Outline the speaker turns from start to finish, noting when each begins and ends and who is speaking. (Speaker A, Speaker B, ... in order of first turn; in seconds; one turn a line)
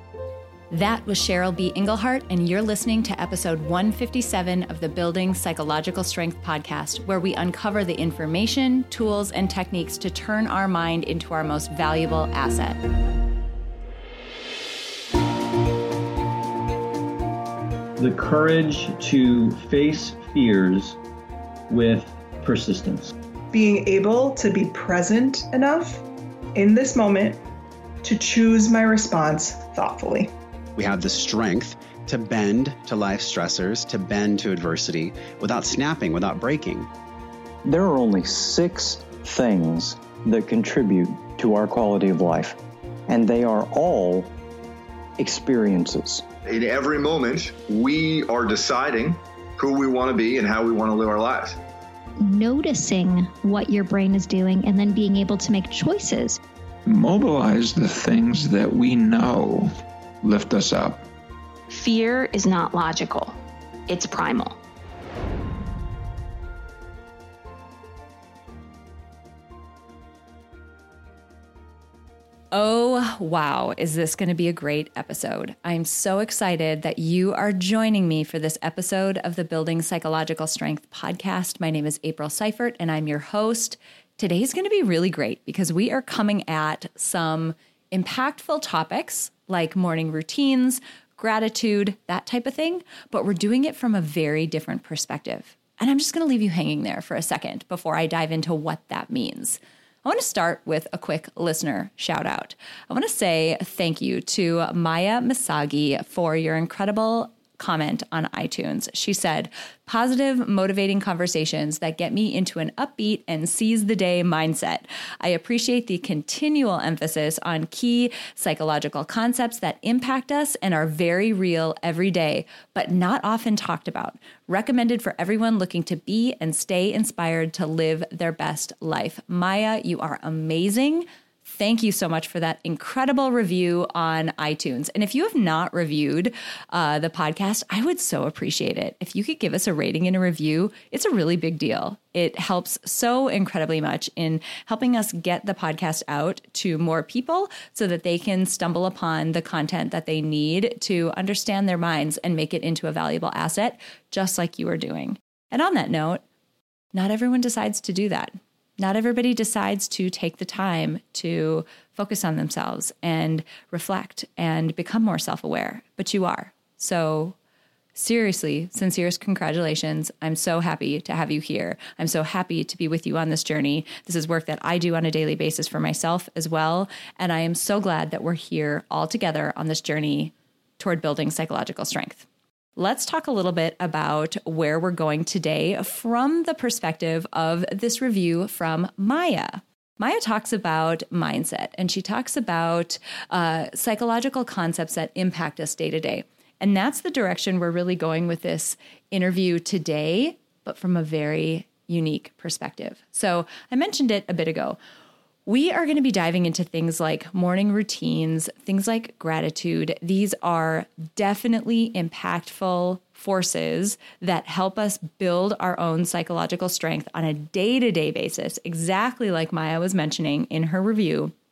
Speaker A: 0.7-12.8
Speaker B: 18.0-21.0
Speaker B: 21.7-23.1
Speaker C: 23.5-26.0
Speaker C: 26.6-27.4
Speaker C: 28.0-30.3
Speaker D: 30.8-36.9
Speaker E: 37.6-44.3
Speaker E: 45.2-46.2
Speaker F: 46.5-51.6
Speaker G: 52.2-56.4
Speaker H: 56.9-59.7
Speaker H: 60.2-61.0
Speaker I: 61.7-64.6
Speaker A: 72.5-156.2
Speaker A: 156.9-167.4
Speaker A: 167.9-182.2
Speaker A: 182.8-204.8
Speaker A: 205.5-221.3